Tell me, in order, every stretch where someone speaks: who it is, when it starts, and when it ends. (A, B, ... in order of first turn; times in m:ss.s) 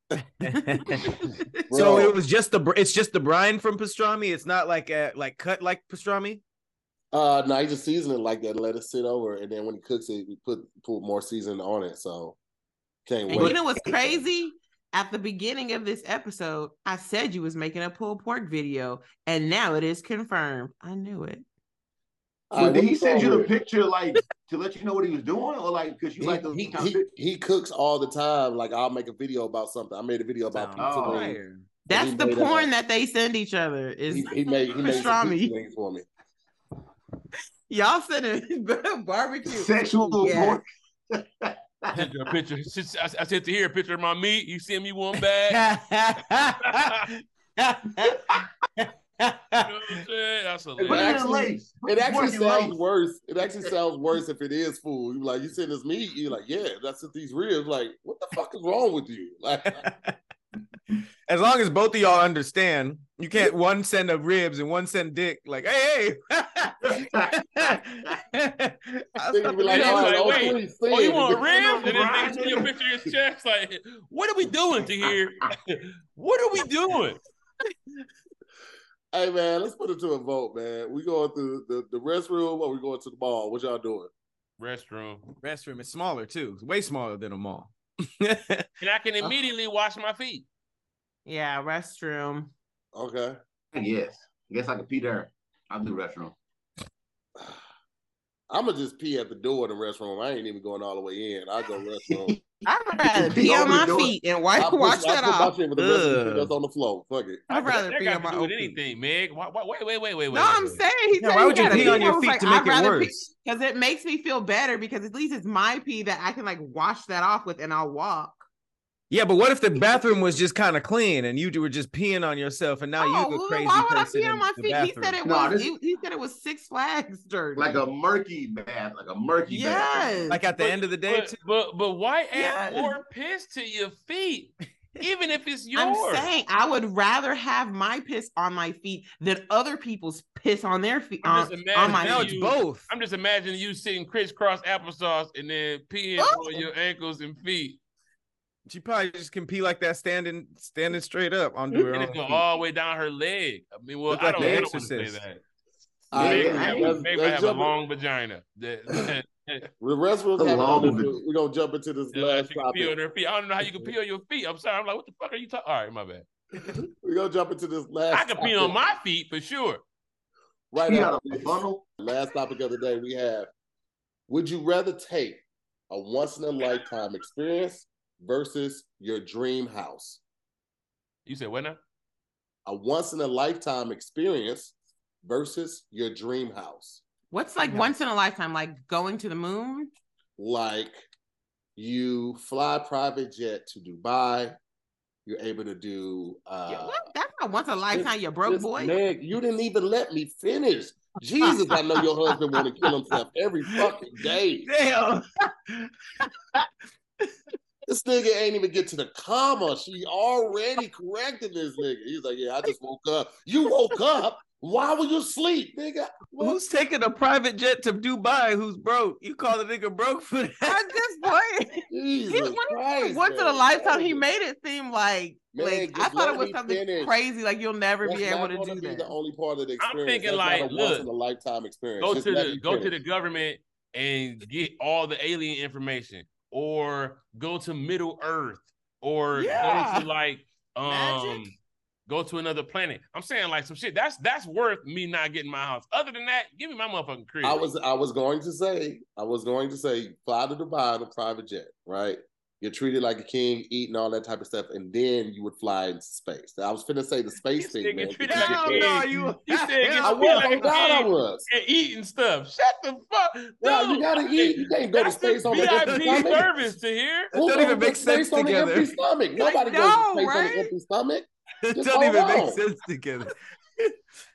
0:00.4-0:01.1 A
0:00.5-0:01.6 B
0:01.7-0:02.2 C
0:01.7-0:06.4 A
0:07.1-0:12.4 C
0:13.1-0:14.2 C
0:13.3-0:21.4 B
0:22.5-0:23.5 C
0:22.6-0:27.0 D
0:26.2-0:32.7 C
0:30.5-0:31.7 A
0:30.8-0:31.3 D
0:31.9-0:35.5 B
0:34.1-0:36.1 C
0:37.7-0:40.6 B
0:39.5-0:42.0 D
0:41.9-0:45.7 E
0:45.5-0:49.9 A
0:46.6-0:47.1 E
0:48.2-0:48.4 D
0:49.6-0:51.2 E
0:50.8-0:52.8 D
0:50.8-0:59.8 C
0:59.7-1:00.2 A
1:01.3-1:10.6 A
1:06.8-1:07.8 D
1:09.3-1:12.2 C
1:09.6-1:17.2 E
1:11.0-1:13.1 D
1:19.1-1:24.1 C
1:24.6-1:25.2 E
1:25.4-1:28.7 A
1:28.8-1:30.5 E
1:31.3-1:32.5 B
1:32.9-1:33.4 C
1:33.7-1:36.4 D
1:38.5-1:42.4 C
1:42.6-1:45.5 B
1:43.1-1:44.2 D
1:44.6-1:47.5 C
1:45.8-1:46.5 A
1:47.5-1:48.8 B
1:47.5-1:50.8 E
1:50.3-1:58.4 B
1:51.2-1:53.1 A
1:51.7-1:52.1 E
1:59.1-2:05.2 A
2:03.0-2:07.8 B
2:05.2-2:05.7 D
2:07.6-2:10.2 D
2:09.5-2:10.4 B
2:10.3-2:11.4 A
2:10.6-2:16.3 E
2:12.3-2:13.0 B
2:15.7-2:22.3 B
2:21.2-2:27.8 E
2:21.8-2:22.9 A
2:26.2-2:26.7 B
2:28.7-2:32.4 A
2:31.7-2:35.4 E
2:34.1-2:35.2 A
2:36.1-2:37.7 C
2:36.1-2:37.0 D
2:36.1-2:39.7 E
2:39.8-2:42.9 C
2:40.4-2:41.1 D
2:42.1-2:46.3 E
2:43.6-2:43.9 C
2:46.6-2:48.8 C
2:48.1-2:49.8 E
2:50.7-2:53.5 C
2:50.8-2:51.9 D
2:54.3-3:00.2 C
3:01.3-3:01.8 E
3:02.7-3:07.0 C
3:07.3-3:09.9 B
3:10.4-3:11.0 C
3:11.8-3:14.6 C
3:15.3-3:17.0 C
3:16.7-3:19.0 B
3:17.9-3:24.7 C
3:24.6-3:26.7 A
3:27.9-3:36.6 C
3:36.4-3:40.8 A
3:40.6-3:49.2 B
3:41.9-3:44.2 C
3:45.5-3:47.2 C
3:48.0-3:53.0 C
3:49.8-3:51.1 E
3:52.0-4:07.7 E
3:59.4-4:00.1 B
4:00.8-4:01.5 B
4:07.4-4:19.0 C
4:17.6-4:27.7 E
4:18.3-4:20.7 A
4:20.0-4:21.5 C
4:23.6-4:26.5 C
4:27.3-4:32.6 C
4:27.3-4:28.9 A
4:29.4-4:30.7 B
4:31.7-4:34.0 A